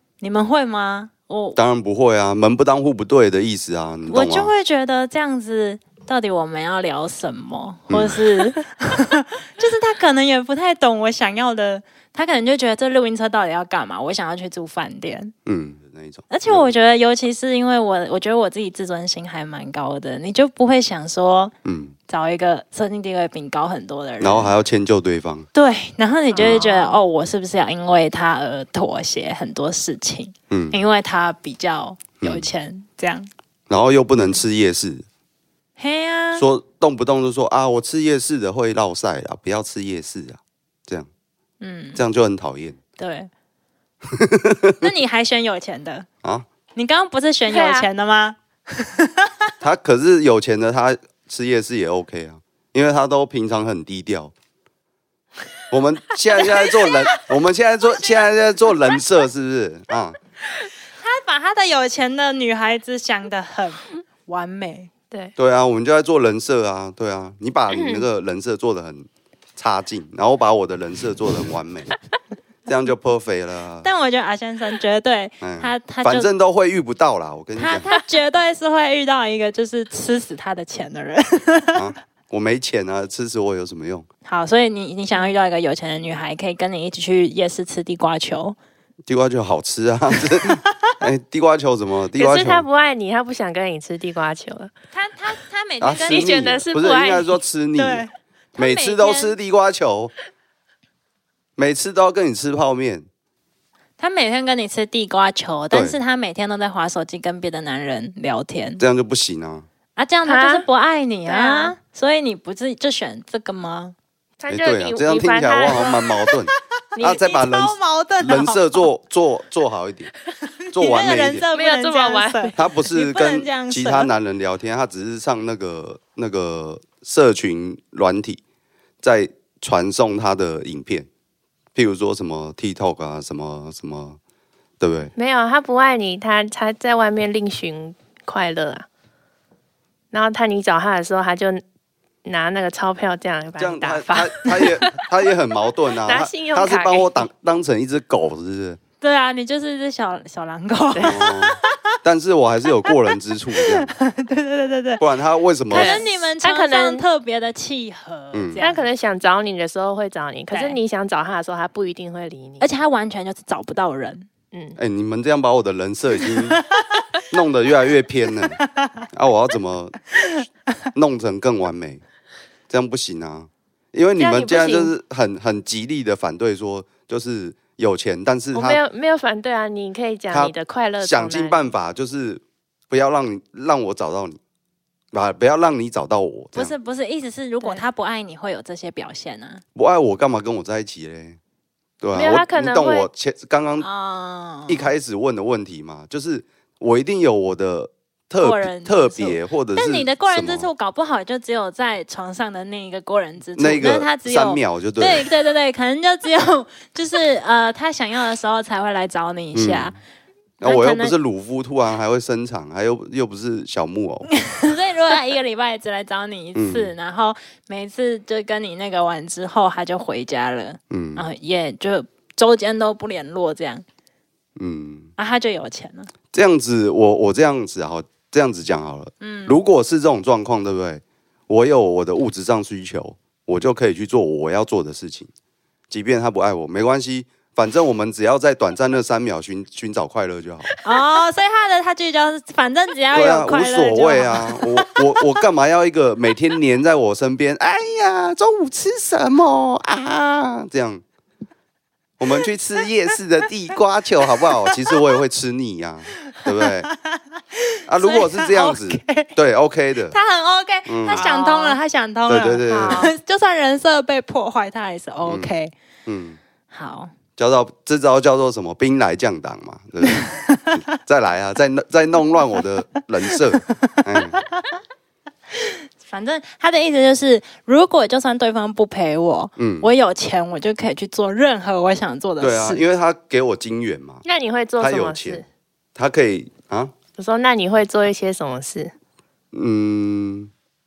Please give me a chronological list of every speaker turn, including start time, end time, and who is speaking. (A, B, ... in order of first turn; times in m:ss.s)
0:00.2-0:01.6 A
0:01.6-0:04.5 B
0:04.1-0:15.3 A
0:07.9-0:08.2 B
0:15.4-0:16.7 B
0:16.3-0:21.5 A
0:21.6-0:21.9 B
0:22.1-0:24.5 A
0:24.2-0:25.5 B
0:25.5-0:33.3 A
0:26.3-0:27.0 C
0:26.4-0:26.6 B
0:30.5-0:30.8 B
0:32.2-0:32.5 B
0:33.7-0:35.0 B
0:35.8-0:36.4 A
0:36.3-0:41.1 B
0:41.6-0:42.0 A
0:41.9-0:42.8 B
0:43.0-0:43.3 A
0:44.2-0:44.8 B
0:44.8-0:46.0 A
0:46.7-0:49.4 A
0:47.5-0:47.9 C
0:49.6-0:54.3 B
0:55.7-1:00.2 B
0:56.4-0:56.9 A
1:01.0-1:04.9 A
1:05.4-1:11.9 B
1:07.7-1:08.0 C
1:12.6-1:13.9 B
1:13.8-1:16.3 A
1:15.4-1:17.9 B
1:17.5-1:21.8 A
1:21.7-1:24.1 B
1:24.2-1:28.6 A
1:29.1-1:32.6 B
1:32.2-1:34.7 C
1:34.9-1:36.5 A
1:35.8-1:38.0 B
1:36.1-1:37.4 C
1:37.8-1:39.4 A
1:38.6-1:40.1 B
1:41.6-1:43.0 B
1:44.0-1:48.8 A
1:45.7-1:46.0 B
1:48.8-1:49.6 B
1:50.0-1:53.9 A
1:50.2-1:50.7 C
1:51.2-1:51.7 C
1:54.4-1:56.0 C
1:54.5-2:00.1 B
1:56.9-1:58.8 A
2:00.7-2:01.5 B
2:00.7-2:04.1 A
2:01.5-2:02.6 C
2:02.6-2:08.4 B
2:09.0-2:11.1 B
2:11.7-2:14.2 B
2:14.8-2:15.1 B
2:15.2-2:18.8 C
2:20.1-2:21.6 C
2:22.2-2:24.9 C
2:23.6-2:28.8 B
2:26.0-2:27.2 C
2:29.0-2:31.6 A
2:30.9-2:31.2 C
2:31.0-2:33.9 B
2:33.8-2:35.0 A
2:35.0-2:36.0 B
2:35.7-2:38.8 A
2:35.7-2:37.0 C
2:38.3-2:38.6 B
2:38.6-2:42.7 C
2:40.5-2:40.8 A
2:42.6-2:44.2 A
2:44.5-2:44.8 C
2:44.8-2:46.6 B
2:47.3-2:48.6 B
2:49.1-2:50.1 B
2:50.9-2:52.0 B
2:52.7-2:58.8 B
2:54.2-2:54.9 C
2:58.5-3:01.7 C
3:00.3-3:04.4 B
3:05.1-3:06.7 B
3:06.5-3:09.6 A
3:09.7-3:11.4 B
3:12.0-3:13.9 B
3:12.1-3:13.1 C
3:13.8-3:14.9 A
3:14.7-3:20.7 B
3:18.4-3:29.9 A
3:23.6-3:25.3 B
3:29.5-3:30.0 B
3:30.6-3:31.2 A
3:30.6-3:34.3 B
3:34.5-3:43.8 A
3:36.6-3:36.9 B
3:40.9-3:41.2 B
3:44.6-3:45.1 B
3:45.2-3:46.1 A
3:46.3-3:55.3 B
3:49.2-3:49.6 A
3:55.9-4:00.7 B
4:00.8-4:04.9 A
4:03.1-4:11.0 B
4:12.2-4:16.9 B
4:16.3-4:19.3 A
4:17.9-4:20.2 B
4:20.0-4:25.7 A
4:20.8-4:23.1 B
4:22.7-4:23.1 C
4:25.2-4:25.5 B
4:26.0-4:26.4 B
4:26.7-4:27.1 A
4:27.4-4:34.4 B
4:30.2-4:30.8 A
4:35.5-4:42.8 A
4:39.6-4:39.9 B
4:42.4-4:44.2 B
4:44.2-4:45.4 C
4:44.8-4:45.4 B
4:46.0-4:46.9 B
4:47.2-4:48.9 C
4:49.5-4:50.5 B